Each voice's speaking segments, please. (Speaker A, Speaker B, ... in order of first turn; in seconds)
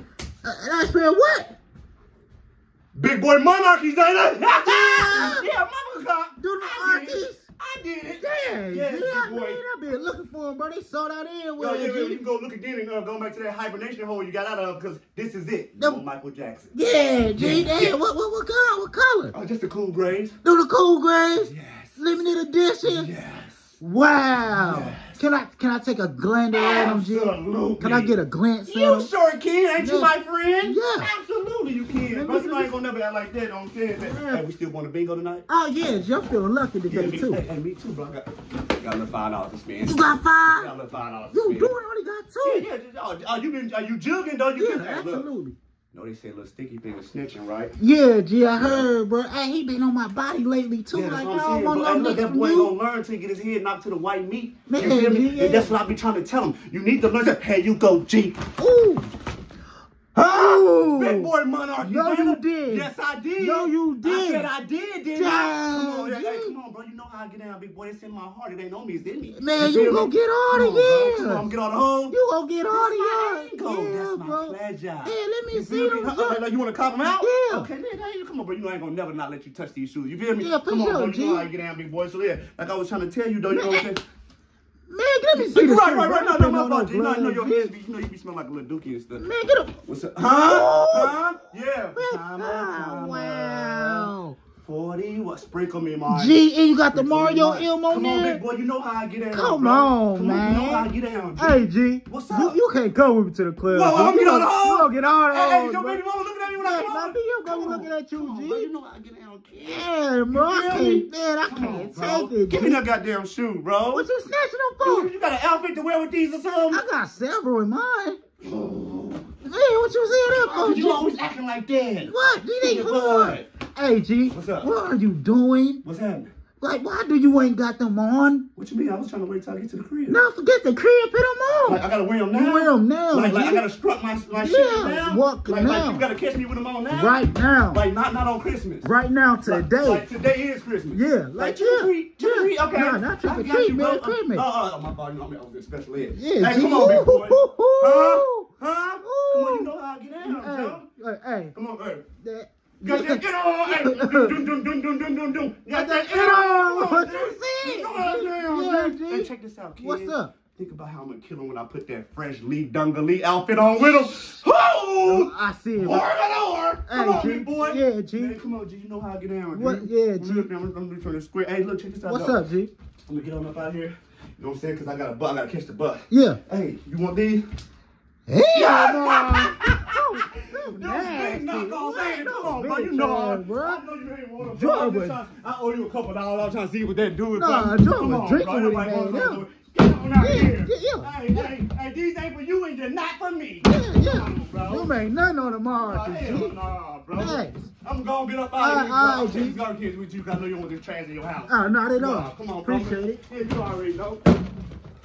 Speaker A: 0.4-1.5, 4.6-5.5, 6.4-7.4, 8.2-12.2, 15.8-16.0, 16.7-19.3, 20.4-23.1, 23.8-29.1, 29.8-30.1, 30.6-31.1, 32.0-32.7, 34.0-34.4, 35.5-37.4, 39.9-40.7, 41.3-42.7, 44.6-45.5, 47.8-52.7, 54.7-55.7, 58.6-59.1, 60.1-64.5, 65.1-66.5, 69.3-71.5, 72.1-76.4, 77.0-77.7, 80.4-81.5, 83.5-83.9, 84.9-87.7, 89.2-91.3, 91.9-94.4, 96.1-98.4, 99.3-106.0, 106.5-108.7, 109.5-112.8, 113.9-115.1, 116.7-118.2, 119.4-121.1, 122.1-125.8, 126.6-128.4, 130.1-133.7, 134.3-136.1, 136.9-137.8, 138.8-140.1, 140.9-144.4, 146.1-148.5, 149.0-149.7, 150.2-151.5, 152.2-154.4, 155.7-160.3, 165.0-166.1, 166.9-168.4, 169.5-170.5, 172.1-172.7, 176.1-176.4, 178.3-183.8, 184.4-185.2, 187.3-189.4, 190.2-191.5, 193.6-196.6, 197.2-197.7, 198.6-199.6, 201.5-203.2
Speaker B: 2.9-9.6, 11.6-16.7, 17.3-18.0, 19.3-20.4, 21.4-22.2, 22.8-23.7, 24.5-25.2, 26.5-35.5, 36.9-41.7, 42.4-45.3, 45.9-47.7, 48.6-48.9, 50.9-58.4, 60.2-72.1, 72.7-84.0, 85.3-89.3, 89.8-96.4, 96.9-102.6, 103.7-114.1, 114.8-116.8, 118.4-119.3, 120.3-123.4, 124.3-124.7, 125.8-126.3, 128.6-130.2, 131.7-138.9, 139.4-150.9, 151.5-152.1, 152.8-172.4, 173.1-177.4, 178.5-194.9, 195.8-204.2